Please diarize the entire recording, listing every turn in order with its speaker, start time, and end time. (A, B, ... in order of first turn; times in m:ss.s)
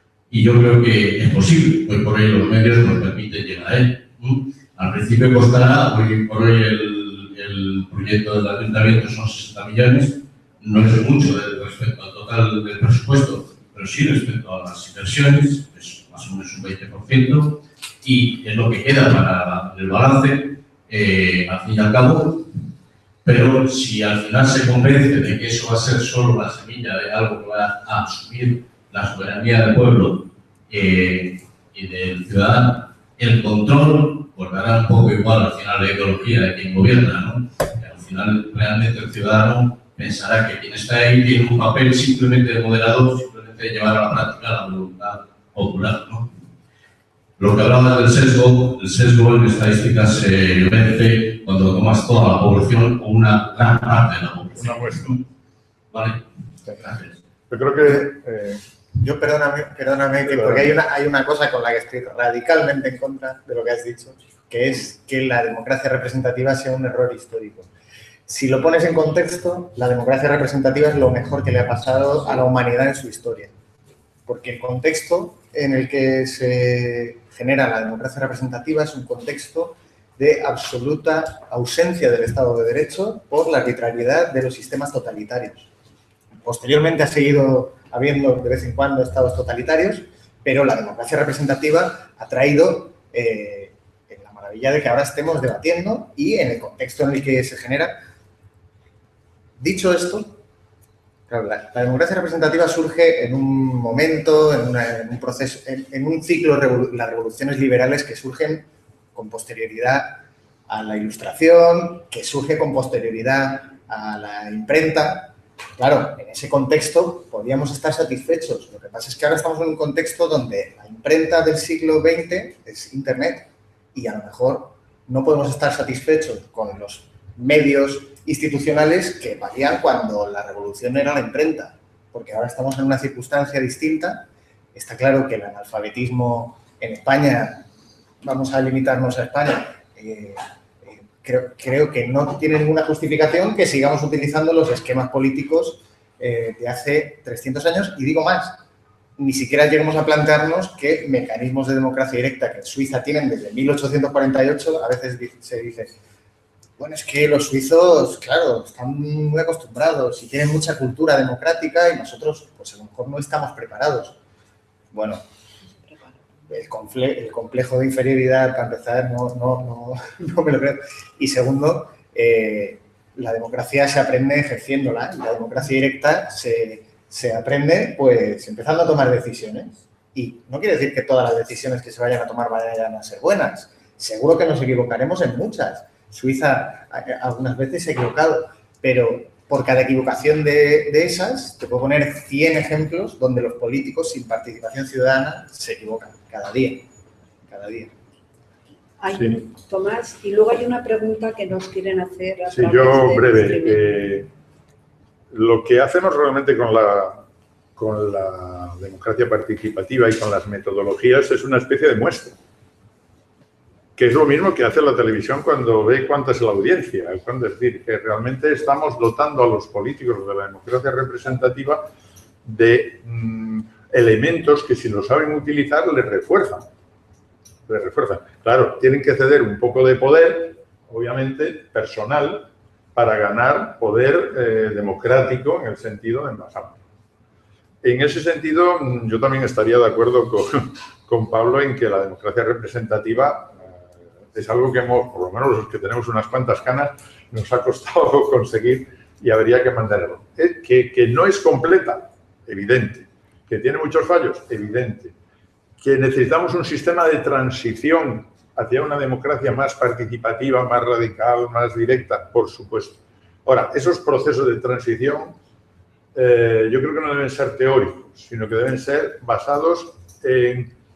0:00.3-0:22.5 A
0:23.2-0:46.3 A
0:47.4-0:55.2 A
0:54.6-0:55.2 B
0:55.9-0:56.2 A
0:56.8-0:57.1 A
0:57.5-0:58.6 B
0:59.0-1:07.7 C
1:00.3-1:00.7 B
1:08.3-1:13.5 C
1:14.3-1:25.7 C
1:26.4-1:38.0 C
1:39.6-1:40.4 C
1:41.3-2:17.7 C
2:18.2-2:28.6 C
2:29.2-2:36.0 C
2:36.8-2:44.2 C
2:44.9-2:45.2 C
2:45.9-2:46.1 D
2:46.5-3:16.9 C
3:17.5-3:17.9 C
3:19.0-3:24.0 D
3:19.1-3:19.4 B
3:22.5-3:24.3 B
3:25.3-3:32.4 B
3:34.0-3:41.9 B
3:42.4-3:46.7 B
3:47.7-3:56.8 B
3:57.8-4:03.7 B
4:04.3-4:15.1 B
4:15.8-4:25.4 B
4:26.1-4:30.7 B